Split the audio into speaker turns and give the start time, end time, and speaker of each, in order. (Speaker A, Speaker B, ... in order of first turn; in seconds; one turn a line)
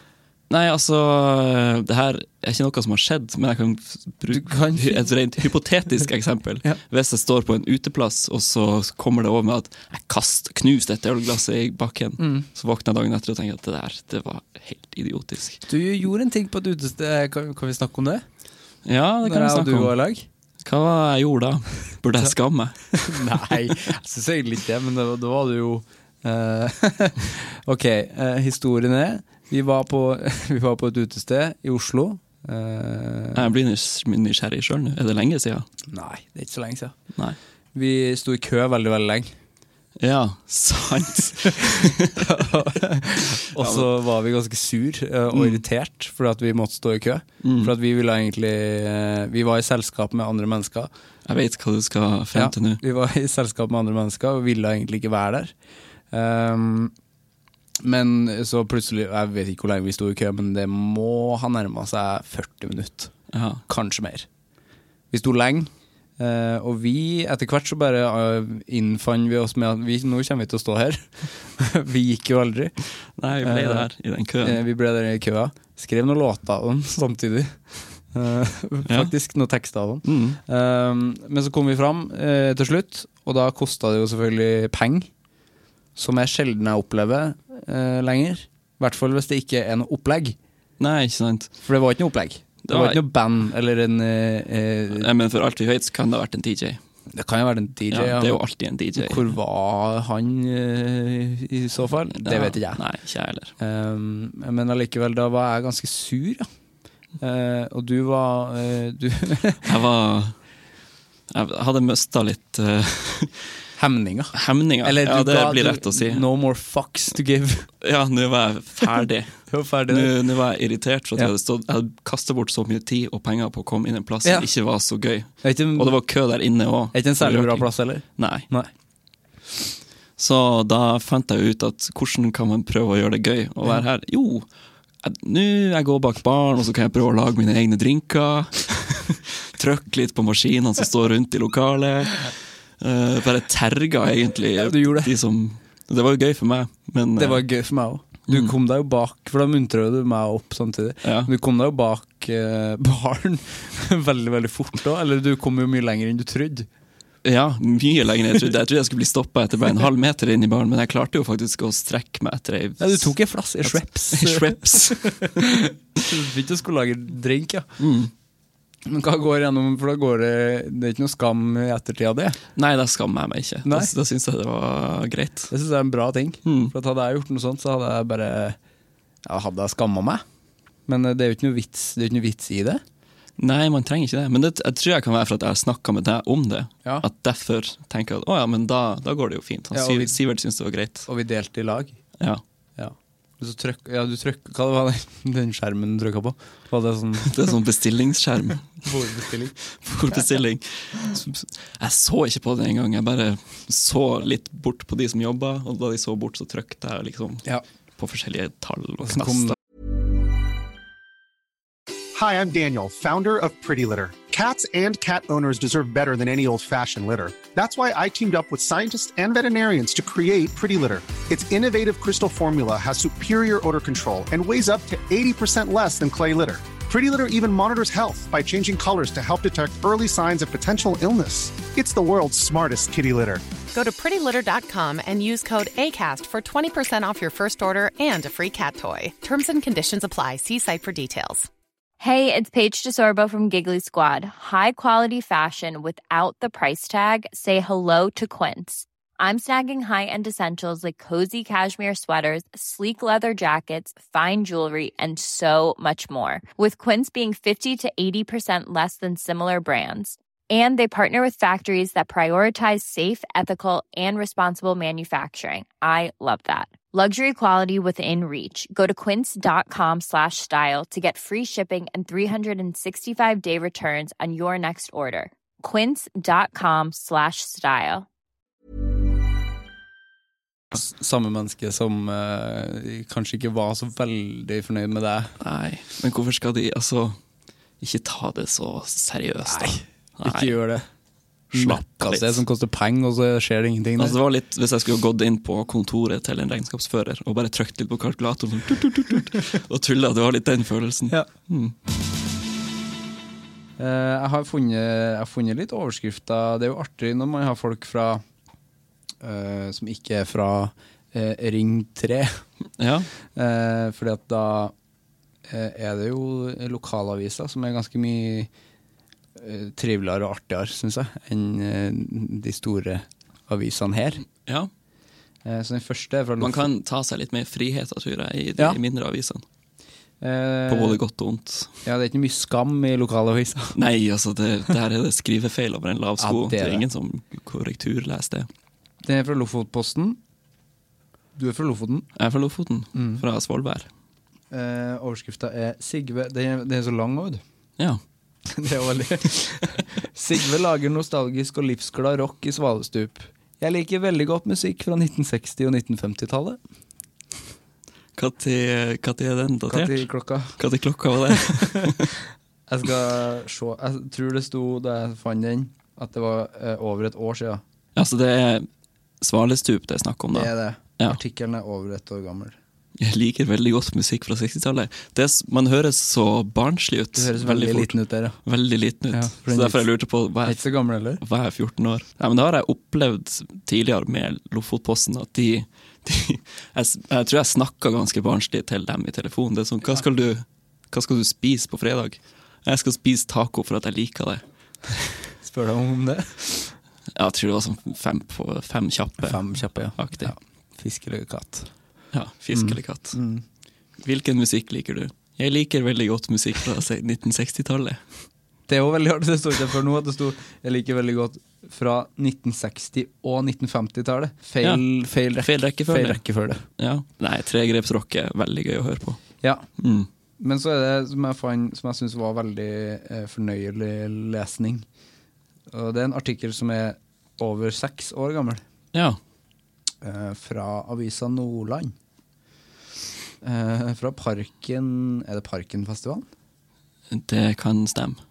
Speaker A: 0.5-15.6
Speaker B: 4.3-5.1
Speaker B: 12.2-12.4
Speaker B: 15.7-18.2
Speaker A: 18.8-19.9
Speaker B: 19.2-20.3
Speaker A: 20.6-23.4
Speaker B: 23.0-33.5
Speaker A: 33.3-35.6
Speaker B: 35.9-37.0
Speaker B: 37.7-39.3
Speaker A: 40.0-42.5
Speaker B: 41.6-50.9
Speaker A: 43.4-43.9
Speaker A: 45.3-45.6
Speaker A: 47.4-47.7
Speaker A: 51.2-52.8
Speaker B: 52.3-55.5
Speaker B: 56.1-56.9
Speaker B: 57.8-63.1
Speaker A: 63.3-63.6
Speaker B: 63.7-64.3
Speaker B: 65.1-72.7
Speaker A: 73.2-74.6
Speaker B: 73.4-73.9
Speaker B: 74.4-85.1
Speaker A: 78.9-79.1
Speaker A: 80.0-80.4
Speaker B: 86.0-90.4
Speaker A: 90.8-91.5
Speaker B: 91.6-95.1
Speaker A: 92.6-93.0
Speaker A: 94.9-96.8
Speaker B: 97.1-98.4
Speaker A: 97.9-99.3
Speaker B: 99.0-102.8
Speaker A: 102.2-103.5
Speaker B: 103.6-106.5
Speaker B: 107.2-109.7
Speaker A: 109.6-110.3
Speaker A: 111.3-113.4
Speaker B: 113.8-117.7
Speaker A: 114.3-116.2
Speaker A: 117.8-128.5
Speaker B: 119.5-120.2
Speaker B: 124.2-124.5
Speaker B: 125.4-126.0
Speaker B: 126.9-128.7
Speaker A: 130.2-134.5
Speaker A: 135.0-147.4
Speaker B: 144.6-145.1
Speaker B: 147.2-156.7
Speaker A: 148.3-148.5
Speaker A: 151.0-151.3
Speaker A: 157.2-165.5
Speaker B: 162.8-167.8
Speaker A: 167.8-168.1
Speaker B: 168.8-172.4
Speaker A: 172.5-175.5
Speaker B: 173.6-173.9
Speaker B: 175.5-178.6
Speaker A: 176.4-176.7
Speaker B: 179.2-180.2
Speaker B: 180.9-182.8
Speaker A: 183.4-191.1
Speaker B: 189.7-190.2
Speaker B: 191.1-192.0
Speaker B: 192.8-197.5
Speaker A: 197.2-198.8
Speaker B: 198.8-199.6
Speaker A: 199.7-207.4
Speaker A: 208.0-209.6
Speaker B: 209.0-209.5
Speaker C: 212.1-233.4
Speaker D: 233.7-241.5
Speaker E: 242.0-278.1
Speaker B: 280.7-285.3
Speaker A: 285.4-287.2
Speaker A: 287.8-290.6
Speaker B: 289.4-290.8
Speaker A: 291.5-292.4
Speaker B: 291.5-294.2
Speaker A: 294.0-301.8
Speaker B: 303.8-308.2
Speaker B: 309.2-312.4
Speaker A: 312.8-313.1
Speaker B: 313.3-314.7
Speaker B: 315.5-318.5
Speaker B: 319.4-324.2
Speaker A: 324.4-324.7
Speaker B: 325.4-326.7
Speaker A: 326.4-329.4
Speaker B: 330.2-331.0
Speaker A: 330.7-331.8
Speaker B: 331.8-333.8
Speaker A: 333.7-338.5
Speaker B: 336.2-336.8
Speaker B: 339.0-340.2
Speaker B: 341.3-342.1
Speaker A: 342.1-343.9
Speaker B: 342.9-343.2
Speaker B: 344.5-347.4
Speaker B: 348.5-356.6
Speaker A: 358.1-362.1
Speaker B: 359.7-360.6
Speaker B: 361.3-362.1
Speaker B: 362.7-367.6
Speaker A: 367.9-368.7
Speaker A: 369.2-371.2
Speaker B: 370.3-372.6
Speaker A: 373.0-380.6
Speaker B: 377.1-378.4
Speaker B: 379.1-379.9
Speaker B: 380.4-381.2
Speaker A: 381.2-395.1
Speaker B: 395.4-396.7
Speaker A: 397.1-400.3
Speaker B: 399.2-401.7
Speaker A: 402.1-403.2
Speaker B: 402.5-403.4
Speaker A: 404.0-408.0
Speaker B: 408.7-416.6
Speaker A: 415.4-419.2
Speaker B: 419.4-419.6
Speaker A: 419.8-420.1
Speaker B: 420.4-424.9
Speaker B: 425.7-428.6
Speaker A: 428.9-429.2
Speaker B: 430.0-431.9
Speaker B: 433.4-436.2
Speaker A: 437.1-438.2